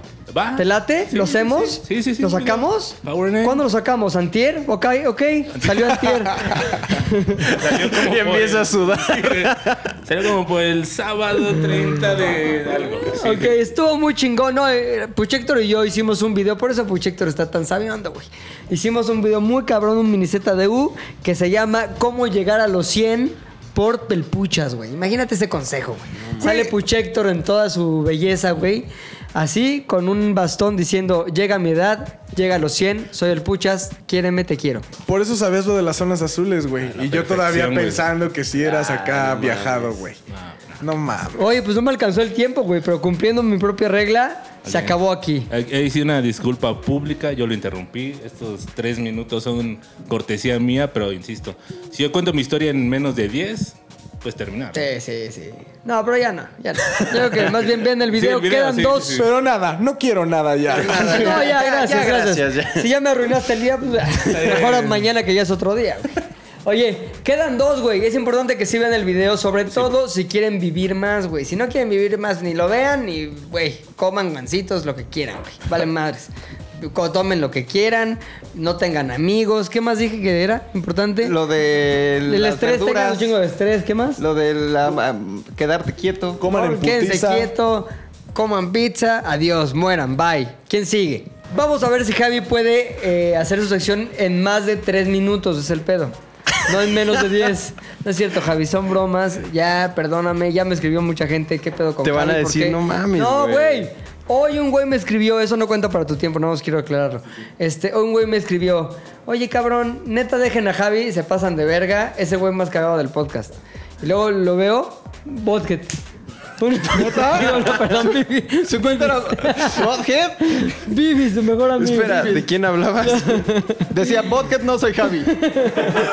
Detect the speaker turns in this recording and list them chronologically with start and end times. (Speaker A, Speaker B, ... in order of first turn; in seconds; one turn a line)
Speaker A: 0.3-3.6
Speaker B: 0.6-7.5
Speaker A: 5.6-13.6
Speaker C: 7.7-9.8
Speaker B: 13.2-34.9
Speaker C: 26.2-26.5
Speaker D: 35.1-40.2
Speaker A: 36.9-38.1
Speaker A: 40.3-40.8
Speaker D: 40.8-41.5
Speaker B: 41.3-45.5
Speaker A: 44.6-45.0
Speaker A: 45.5-54.8
Speaker B: 54.7-59.2
Speaker A: 58.1-59.3
Speaker D: 59.1-61.4
Speaker C: 60.7-62.9
Speaker B: 60.9-81.3
Speaker A: 64.3-65.0
Speaker E: 81.2-83.3
Speaker B: 82.3-84.2
Speaker E: 84.2-86.4
Speaker D: 86.4-87.5
Speaker B: 86.5-116.0
Speaker C: 102.0-103.9
Speaker B: 116.6-119.8
Speaker D: 117.0-117.5
Speaker E: 117.1-117.6
Speaker E: 118.6-120.8
Speaker B: 120.5-122.5
Speaker C: 121.8-123.5
Speaker B: 123.0-123.9
Speaker E: 123.9-125.3
Speaker B: 125.3-125.9